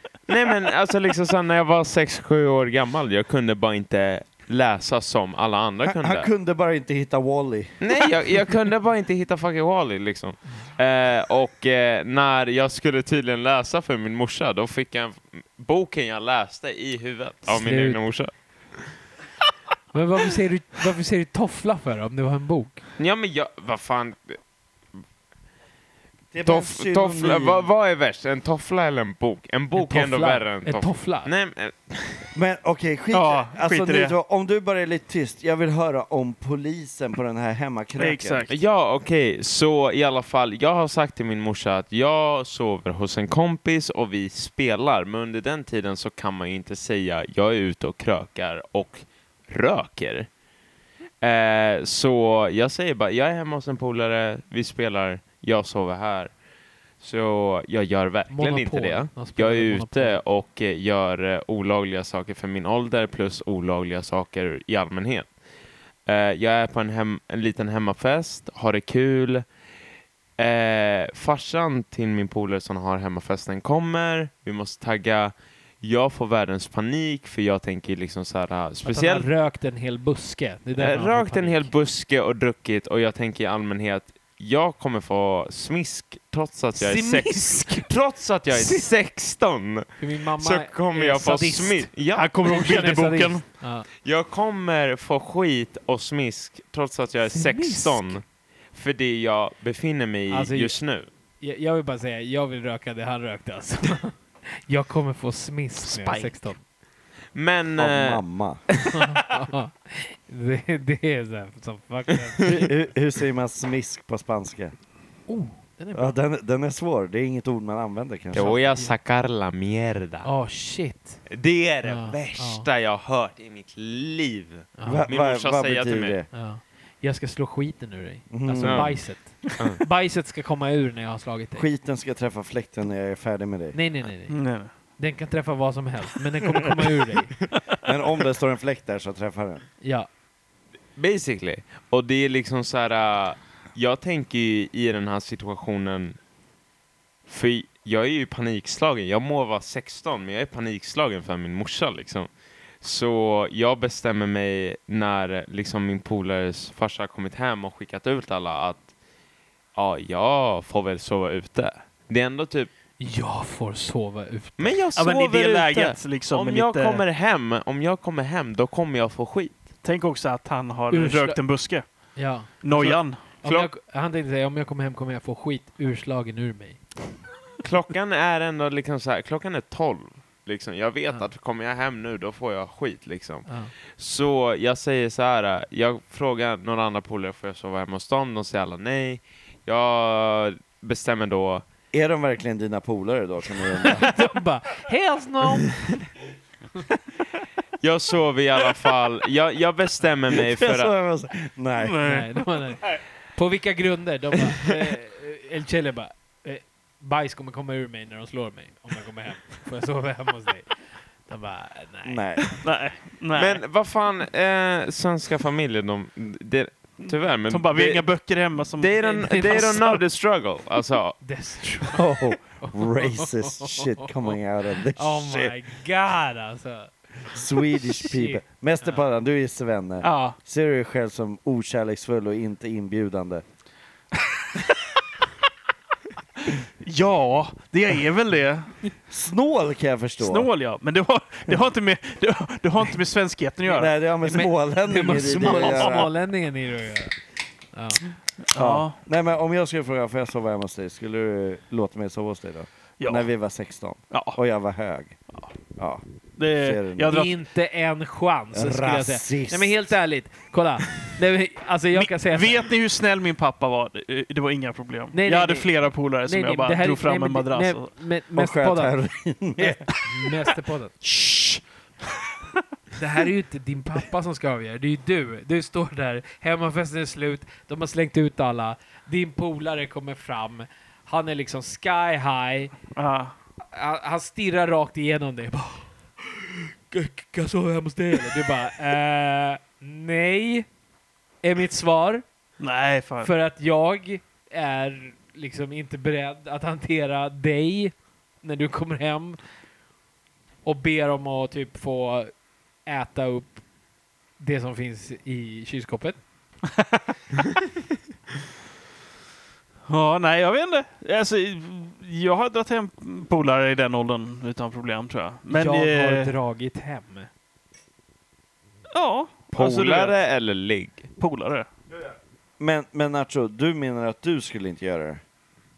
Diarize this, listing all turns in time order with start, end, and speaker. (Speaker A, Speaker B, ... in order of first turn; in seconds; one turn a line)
Speaker A: 0.3-6.3
Speaker B: 5.8-7.8
Speaker A: 7.8-19.0
Speaker C: 17.5-18.0
Speaker C: 19.9-22.8
Speaker A: 23.0-24.4
Speaker B: 26.3-27.7
Speaker A: 26.4-32.3
Speaker C: 29.8-31.3
Speaker B: 32.3-38.5
Speaker D: 33.1-34.1
Speaker D: 38.0-38.5
Speaker A: 38.5-50.3
Speaker A: 51.2-56.3
Speaker A: 57.0-65.3
Speaker C: 58.3-60.2
Speaker A: 66.1-69.5
Speaker A: 70.4-79.3
Speaker C: 78.8-81.7
Speaker A: 80.8-92.4
Speaker C: 86.8-87.9
Speaker C: 88.5-88.9
Speaker C: 90.0-93.9
Speaker D: 92.1-93.4
Speaker A: 94.0-101.1
Speaker C: 97.3-98.2
Speaker C: 100.3-100.8
Speaker C: 101.4-106.6
Speaker D: 105.9-106.3
Speaker A: 107.3-109.0
Speaker B: 107.8-108.6
Speaker C: 108.9-112.7
Speaker B: 112.4-114.7
Speaker C: 115.3-116.2
Speaker B: 115.9-118.6
Speaker C: 118.3-118.9
Speaker A: 118.3-120.3
Speaker C: 120.2-121.2
Speaker A: 121.3-126.2
Speaker C: 121.8-122.7
Speaker C: 124.8-125.1
Speaker B: 124.8-126.3
Speaker C: 126.3-131.7
Speaker B: 128.3-129.0
Speaker A: 128.6-129.8
Speaker B: 131.6-133.8
Speaker C: 133.7-137.3
Speaker D: 134.3-134.7
Speaker B: 137.8-139.6
Speaker C: 139.8-140.1
Speaker A: 141.0-146.2
Speaker A: 147.3-152.3
Speaker A: 152.8-158.9
Speaker A: 159.8-162.7
Speaker C: 163.0-164.8
Speaker A: 164.6-169.7
Speaker D: 164.9-167.0
Speaker D: 169.8-173.2
Speaker C: 170.9-176.8
Speaker A: 172.7-173.7
Speaker A: 177.6-191.6
Speaker C: 183.5-183.7
Speaker B: 191.9-194.1
Speaker C: 194.0-196.0
Speaker A: 197.8-200.9
Speaker B: 200.3-202.0
Speaker D: 201.8-203.0
Speaker C: 202.0-210.7
Speaker C: 211.3-212.6
Speaker B: 212.1-212.6
Speaker D: 212.6-213.6
Speaker A: 213.3-218.1
Speaker D: 217.1-219.9
Speaker A: 218.8-221.2
Speaker C: 219.0-220.0
Speaker C: 221.2-224.1
Speaker B: 221.9-225.6
Speaker C: 224.9-229.0
Speaker B: 227.3-233.4
Speaker D: 230.0-230.3
Speaker D: 236.8-238.8
Speaker B: 239.1-240.5
Speaker D: 240.2-243.9
Speaker B: 243.7-246.1
Speaker C: 244.2-247.2
Speaker D: 245.4-246.0
Speaker C: 247.7-248.0
Speaker D: 248.5-249.0
Speaker B: 248.6-255.2
Speaker D: 253.0-253.3
Speaker D: 254.1-254.4
Speaker B: 255.8-257.2
Speaker D: 256.4-257.4
Speaker C: 257.1-262.7
Speaker B: 258.5-259.8
Speaker D: 261.9-267.9
Speaker C: 265.1-268.9
Speaker B: 268.4-269.9
Speaker C: 269.6-271.0
Speaker D: 271.0-271.6
Speaker C: 273.0-282.7
Speaker D: 283.0-283.3
Speaker C: 283.7-290.7
Speaker C: 291.4-292.2
Speaker D: 292.6-293.3
Speaker C: 293.2-299.4
Speaker C: 300.6-302.3
Speaker C: 302.9-303.6
Speaker C: 304.4-306.2
Speaker D: 309.9-316.3
Speaker C: 315.5-317.3
Speaker D: 318.9-320.2
Speaker A: 319.5-321.1
Speaker D: 321.2-321.7
Speaker B: 321.9-325.2